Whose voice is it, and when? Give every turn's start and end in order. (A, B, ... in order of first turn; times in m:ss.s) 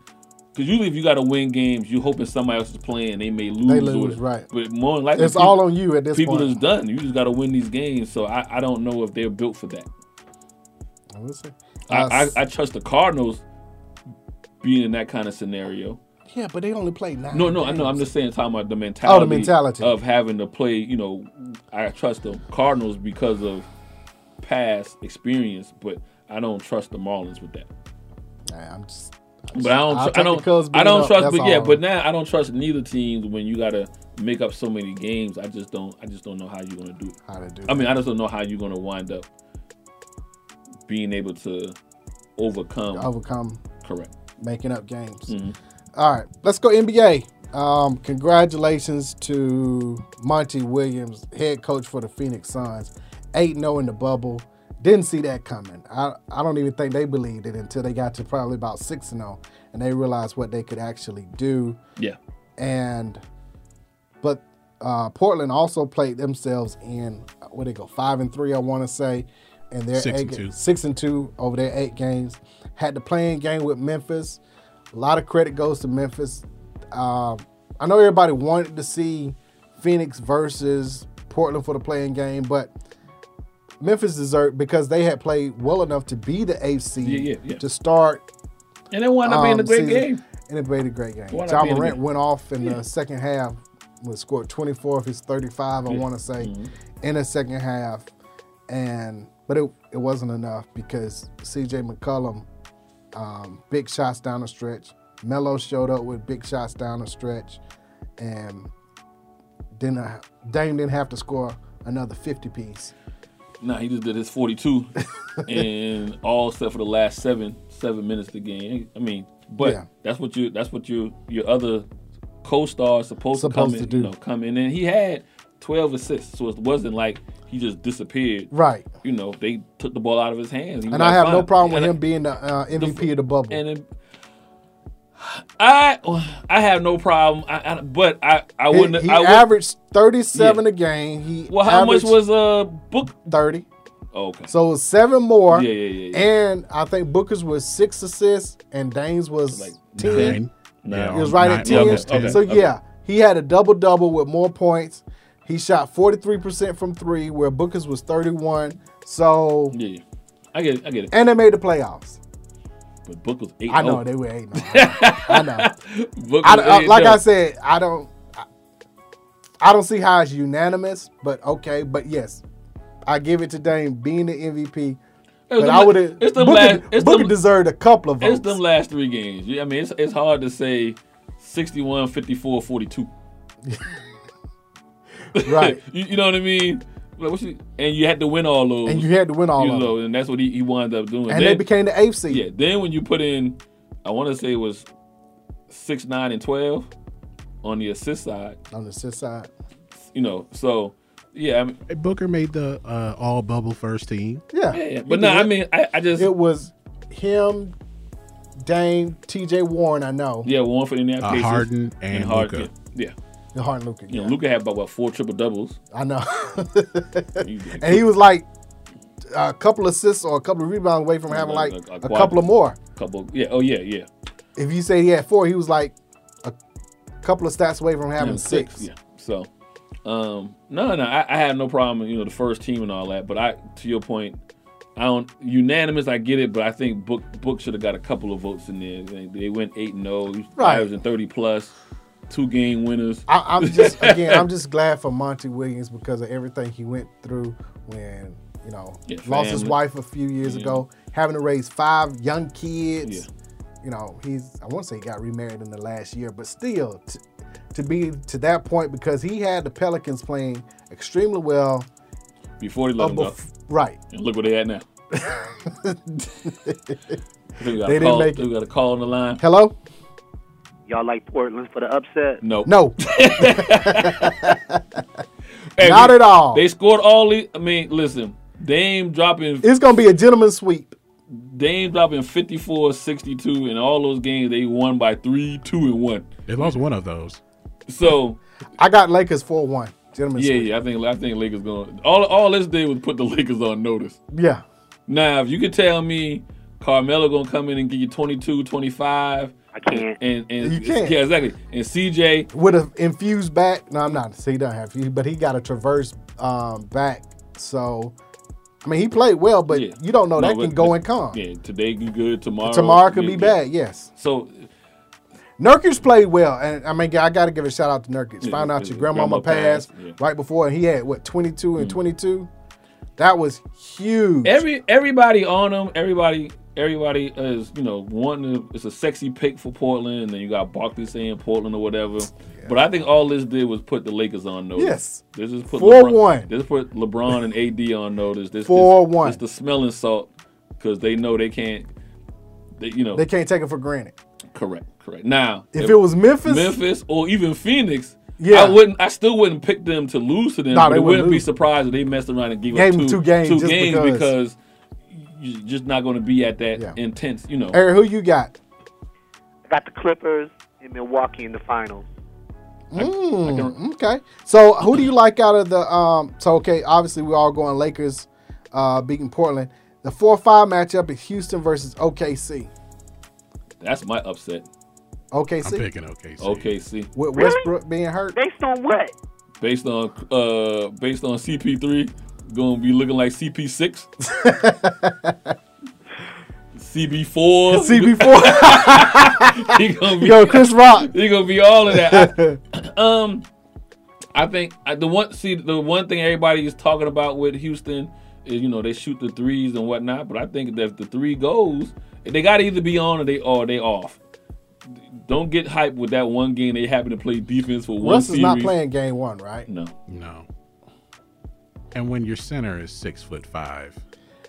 0:00.5-0:05.6 A
0:03.7-0:04.5 B
0:05.2-0:06.6 B
0:06.1-0:09.9 A
0:11.1-0:12.3 B
0:11.9-0:13.4 A
0:14.6-0:16.0 A
0:16.3-0:18.0 B
0:17.3-0:23.7 A
0:19.0-0:19.9 B
0:24.4-0:27.7 A
0:28.5-0:31.8 B
0:29.5-0:37.2 A
0:37.3-0:37.9 B
0:37.7-0:39.2 A
0:40.9-0:41.7 A
0:42.4-0:43.1 A
0:42.9-0:43.6 B
0:43.8-0:44.1 A
0:44.4-0:45.3 B
0:45.3-0:45.5 A
0:46.0-1:01.8 B
1:02.6-1:03.2 B
1:04.2-1:14.4 B
1:09.9-1:10.5 C
1:14.9-1:22.7 B
1:23.8-1:28.2 B
1:27.0-1:27.6 A
1:28.9-1:30.2 A
1:29.2-1:38.1 B
1:31.3-1:32.0 A
1:35.9-1:36.7 A
1:38.7-1:42.4 B
1:43.1-1:47.6 B
1:48.2-1:48.7 B
1:49.8-1:52.9 B
1:53.6-1:54.9 A
1:55.4-2:01.8 A
1:59.6-1:59.8 B
2:02.4-2:08.5 A
2:03.3-2:04.1 B
2:08.5-2:08.8 B
2:09.0-2:12.0 A
2:10.9-2:13.6 B
2:12.7-2:13.8 A
2:15.2-2:19.5 A
2:18.7-2:22.2 B
2:20.3-2:20.6 A
2:21.5-2:23.1 A
2:23.1-2:23.6 B
2:24.1-2:24.5 A
2:24.5-2:30.4 B
2:25.5-2:26.2 A
2:29.5-2:32.7 A
2:30.0-2:32.4 C
2:31.1-2:39.7 B
2:39.7-2:40.0 A
2:40.5-2:41.1 A
2:41.1-2:42.2 B
2:43.0-2:47.2 A
2:43.7-2:45.7 B
2:46.4-2:48.4 B
2:49.6-2:52.4 B
2:53.1-2:55.0 B
2:55.5-2:57.4 A
2:55.6-2:58.6 B
2:58.2-3:03.1 A
3:05.3-3:11.6 A
3:05.4-3:05.8 B
3:08.8-3:09.9 B
3:11.3-3:12.4 B
3:12.3-3:14.8 A
3:15.7-3:16.9 A
3:17.6-3:18.6 A
3:18.7-3:19.5 B
3:20.1-3:21.8 A
3:21.9-3:24.4 C
3:24.5-3:25.5 B
3:24.7-3:26.3 A
3:26.2-3:27.7 B
3:28.6-3:30.5 B
3:30.4-3:33.1 A
3:31.2-3:32.7 C
3:33.5-3:34.4 B
3:34.1-3:35.8 A
3:35.9-3:38.4 B
3:37.4-3:38.1 A
3:39.3-3:42.8 B
3:41.3-3:42.4 A
3:42.9-3:44.1 A
3:44.6-3:46.6 B
3:47.2-3:48.9 B
3:48.2-3:49.5 A
3:50.0-3:54.4 A
3:55.0-4:01.7 A
4:00.6-4:00.9 B
4:02.3-4:04.4 A
4:03.3-4:13.2 B
4:09.1-4:09.8 A
4:10.4-4:10.8 A
4:13.8-4:17.2 B
4:17.7-4:21.9 B
4:22.6-4:23.4 A
4:23.0-4:24.0 B
4:24.1-4:24.8 A
4:25.2-4:26.9 B
4:27.6-4:29.4 A
4:27.8-4:28.4 B
4:29.4-4:29.7 B
4:30.9-4:32.4 D
4:32.4-4:34.6 A
4:32.6-4:35.0 B
4:35.7-4:39.7 A
4:35.8-4:36.6 B
4:39.6-4:40.9 B
4:41.3-4:46.7 A
4:46.5-4:47.4 C
4:47.9-4:48.4 A
4:48.8-4:50.7 B
4:50.4-4:54.2 A
4:54.3-4:54.6 B
4:55.1-5:02.5 A
4:59.7-5:00.2 D
5:00.6-5:01.2 B
5:02.5-5:08.1 B
5:08.8-5:11.4 B
5:09.7-5:13.6 A
5:12.6-5:14.1 B
5:14.2-5:14.7 A
5:15.6-5:22.5 B
5:18.4-5:20.2 A
5:23.2-5:24.6 B
5:24.4-5:41.9 A
5:34.8-5:36.5 B
5:38.7-5:39.4 B
5:42.8-5:43.2 A
5:43.1-5:44.1 B
5:44.5-5:54.6 A
5:45.7-5:46.8 B
5:48.4-5:48.8 B
5:50.7-5:51.4 B
5:52.7-5:54.3 B
5:55.1-5:57.8 A
5:57.7-5:58.6 B
5:59.7-6:02.1 D
6:02.9-6:12.7 B
6:02.9-6:03.8 A
6:13.8-6:14.6 A
6:15.3-6:15.9 B
6:15.6-6:16.7 C
6:16.4-6:17.1 A
6:17.1-6:18.4 B
6:17.4-6:17.7 D
6:18.3-6:19.1 D
6:19.6-6:24.1 A
6:24.2-6:25.5 B
6:26.8-6:33.4 A
6:27.7-6:31.1 B
6:31.9-6:32.6 B
6:34.3-6:44.2 A
6:45.2-6:48.7 A
6:48.0-6:49.7 B
6:49.7-6:49.9 A
6:50.1-6:50.4 C
6:51.9-6:54.0 C